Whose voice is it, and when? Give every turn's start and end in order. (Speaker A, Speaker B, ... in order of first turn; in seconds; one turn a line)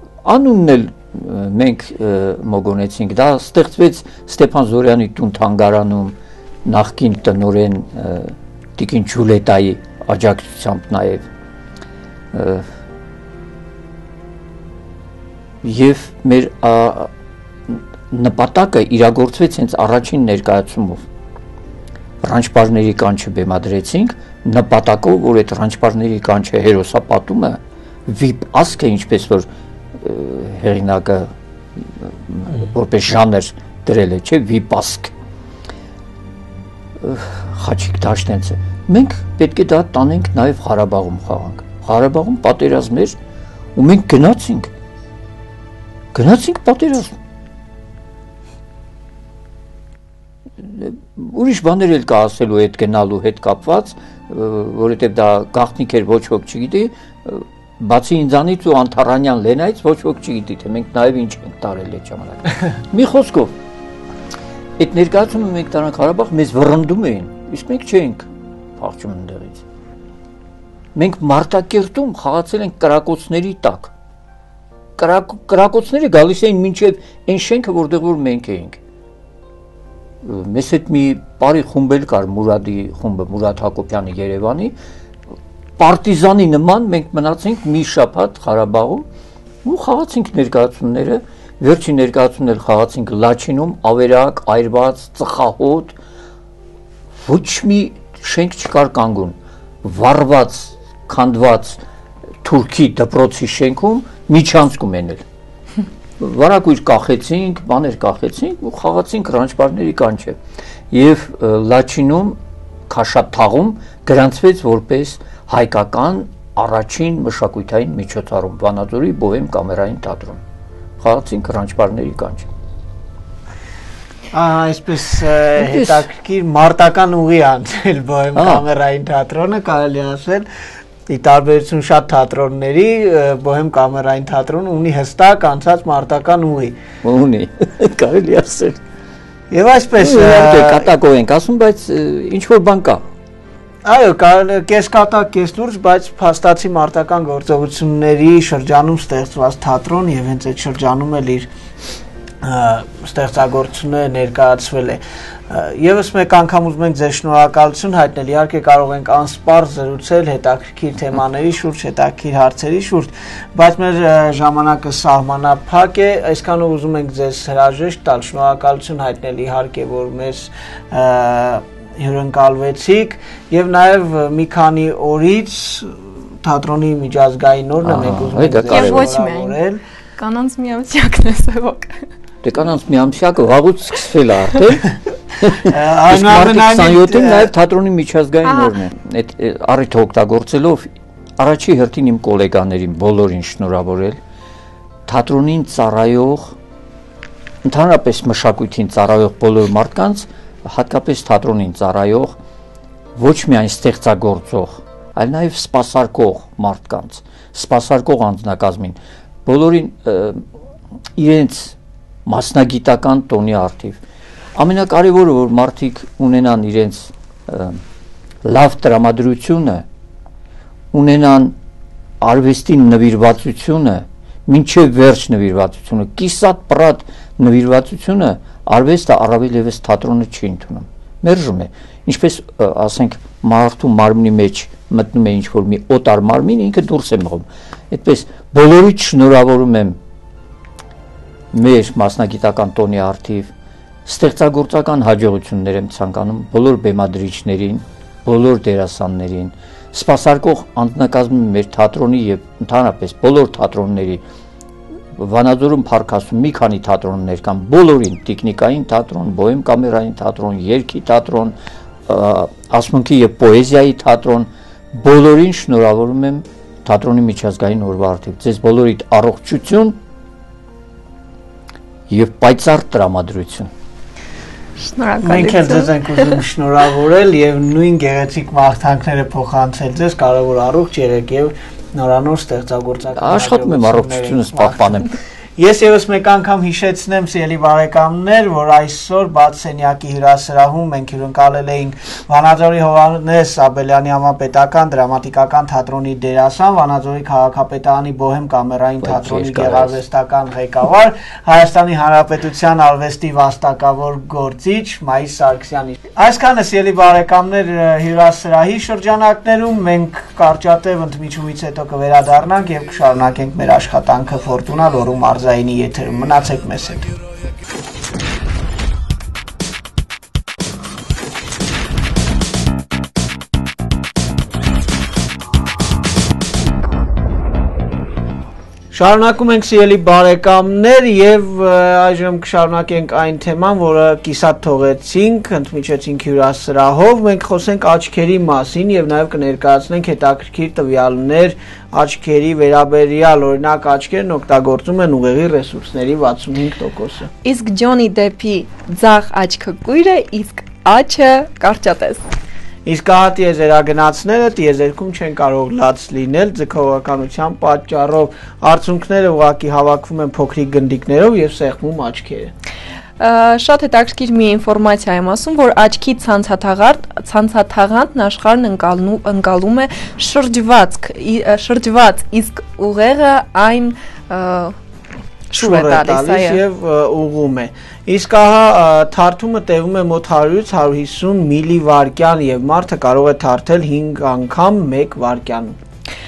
Speaker A: 0.2-11.3
Speaker A: 12.3-12.7
Speaker A: 15.6-17.1
Speaker A: 17.7-21.1
Speaker A: 22.2-29.5
Speaker A: 30.0-35.1
Speaker A: 37.0-43.2
Speaker A: 43.8-44.7
Speaker A: 46.1-47.2
Speaker A: 50.6-63.5
Speaker A: 64.8-69.6
Speaker A: 71.0-73.9
Speaker A: 75.0-78.8
Speaker A: 80.2-84.8
Speaker A: 85.8-89.0
Speaker A: 89.6-96.0
Speaker A: 97.2-101.8
Speaker A: 102.4-105.2
Speaker A: 106.2-110.4
Speaker A: 110.9-120.4
Speaker A: 121.0-122.5
Speaker B: 124.3-130.5
Speaker A: 125.6-126.0
Speaker A: 128.4-128.6
Speaker B: 131.1-136.8
Speaker A: 137.0-138.8
Speaker B: 139.5-140.9
Speaker A: 140.0-143.0
Speaker B: 143.8-151.5
Speaker B: 152.4-179.8
Speaker A: 177.8-179.1
Speaker C: 178.7-179.6
Speaker C: 180.2-182.1
Speaker A: 182.4-194.2
Speaker B: 185.5-187.5
Speaker C: 188.5-188.7
Speaker A: 195.1-196.6
Speaker A: 197.7-202.3
Speaker A: 203.2-210.5
Speaker A: 211.2-214.0
Speaker A: 214.6-217.8
Speaker A: 218.4-219.9
Speaker A: 220.9-221.6
Speaker A: 222.2-240.0
Speaker A: 241.5-243.5
Speaker A: 244.1-254.2
Speaker A: 255.2-261.6
Speaker A: 262.1-270.0
Speaker A: 272.1-273.7
Speaker C: 274.8-276.4
Speaker B: 275.2-285.0
Speaker A: 283.2-285.1
Speaker B: 285.6-317.1
Speaker A: 299.0-300.0
Speaker B: 328.9-347.3
Speaker C: 347.4-352.2
Speaker B: 352.9-362.5
Speaker C: 363.2-374.8
Speaker C: 375.5-376.6
Speaker B: 375.6-385.8